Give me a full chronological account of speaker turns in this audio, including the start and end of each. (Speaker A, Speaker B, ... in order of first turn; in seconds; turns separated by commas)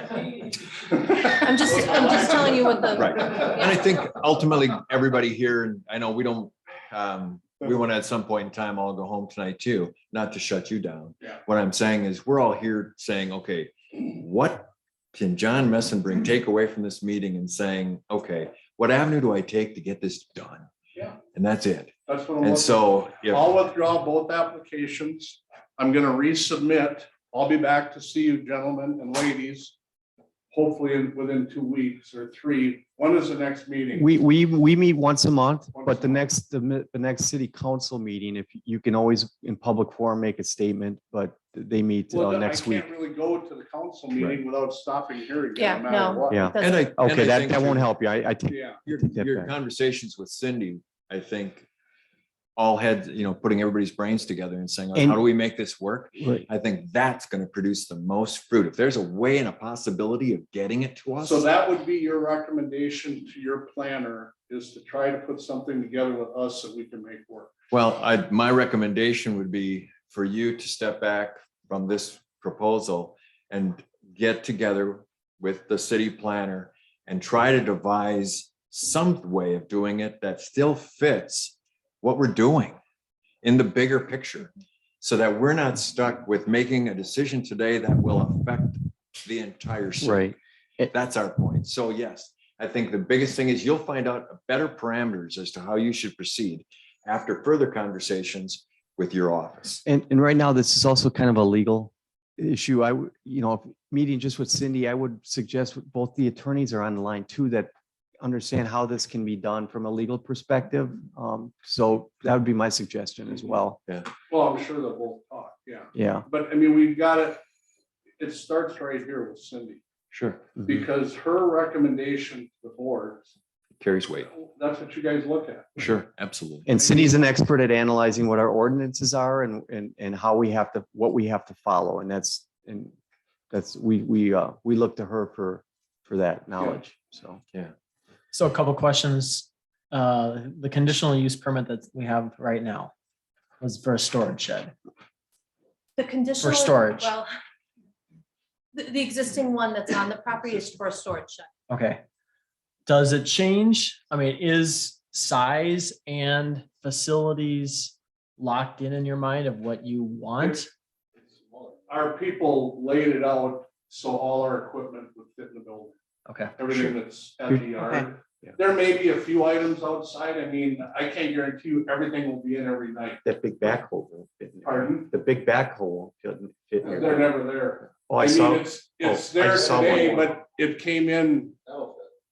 Speaker A: 0.9-1.4, Speaker B: 1.4-3.7, Speaker C: 2.9-20.7, Speaker C: 21.3-23.4, Speaker A: 22.1-29.8, Speaker A: 30.5-34.1, Speaker D: 33.9-42.9, Speaker A: 35.7-36.2, Speaker A: 42.1-46.5, Speaker B: 45.6-46.9, Speaker D: 46.3-49.5, Speaker C: 46.6-47.9, Speaker A: 48.5-48.8, Speaker C: 48.8-51.7, Speaker C: 52.6-61.4, Speaker D: 54.9-55.2, Speaker D: 56.2-56.5, Speaker A: 61.2-67.5, Speaker C: 67.7-82.8, Speaker C: 83.4-90.3, Speaker D: 90.0-90.9, Speaker C: 90.9-99.8, Speaker D: 99.8-113.8, Speaker A: 114.3-117.4, Speaker D: 115.9-116.2, Speaker A: 118.2-119.8, Speaker C: 120.1-120.4, Speaker A: 120.6-123.3, Speaker C: 123.8-124.3, Speaker A: 124.3-125.8, Speaker C: 125.8-126.7, Speaker D: 126.7-132.9, Speaker A: 126.7-127.2, Speaker D: 133.5-137.4, Speaker E: 138.3-142.9, Speaker E: 143.6-144.7, Speaker B: 146.0-147.3, Speaker E: 146.4-147.1, Speaker B: 148.7-151.5, Speaker E: 151.7-152.0, Speaker E: 152.8-160.7, Speaker A: 161.9-166.0, Speaker E: 166.2-166.6, Speaker A: 166.6-173.2, Speaker D: 173.2-177.3, Speaker A: 174.6-175.1, Speaker A: 176.8-181.6, Speaker D: 178.1-180.3